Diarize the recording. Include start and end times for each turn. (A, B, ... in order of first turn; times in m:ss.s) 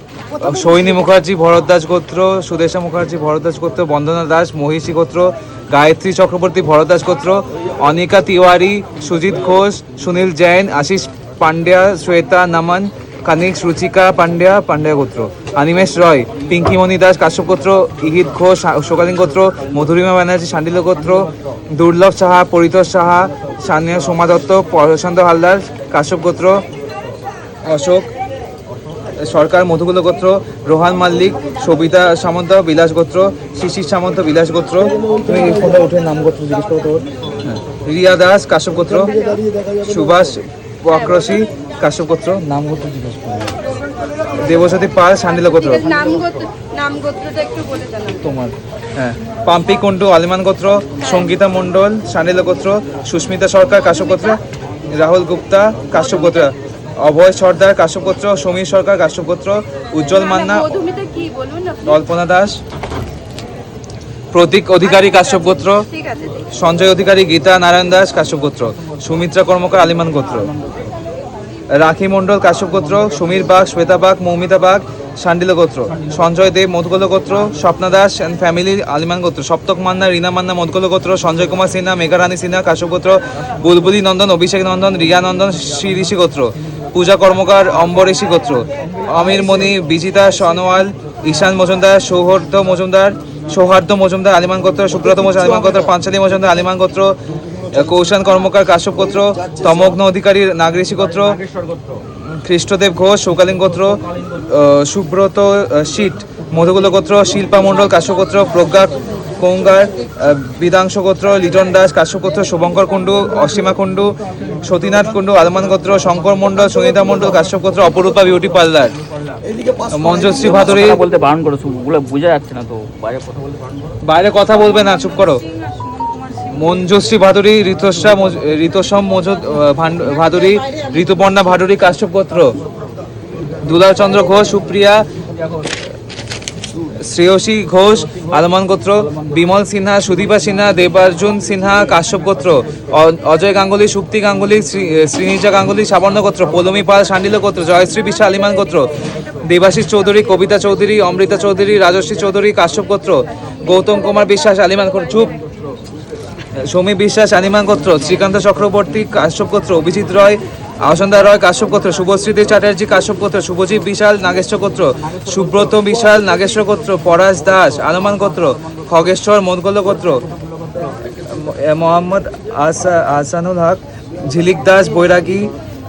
0:00.4-0:26.6 A
0:27.6-0:28.1 A
0:29.2-0:43.6 A
0:39.0-0:39.5 B
0:44.3-0:46.1 A
0:45.5-0:48.3 B
0:48.2-1:00.8 A
1:00.1-1:01.9 B
1:01.8-1:02.6 A
1:04.3-1:05.9 A
1:04.8-1:06.5 B
1:06.4-1:10.5 A
1:11.7-1:41.4 A
1:41.2-1:42.0 C
1:42.2-1:58.9 A
1:59.9-2:01.0 A
2:00.2-2:03.8 C
2:04.0-2:05.4 A
2:05.6-2:06.5 B
2:06.5-2:12.6 A
2:13.6-2:15.1 A
2:16.8-2:28.9 A
2:29.4-2:35.4 A
2:36.6-2:50.2 A
2:51.2-2:55.5 A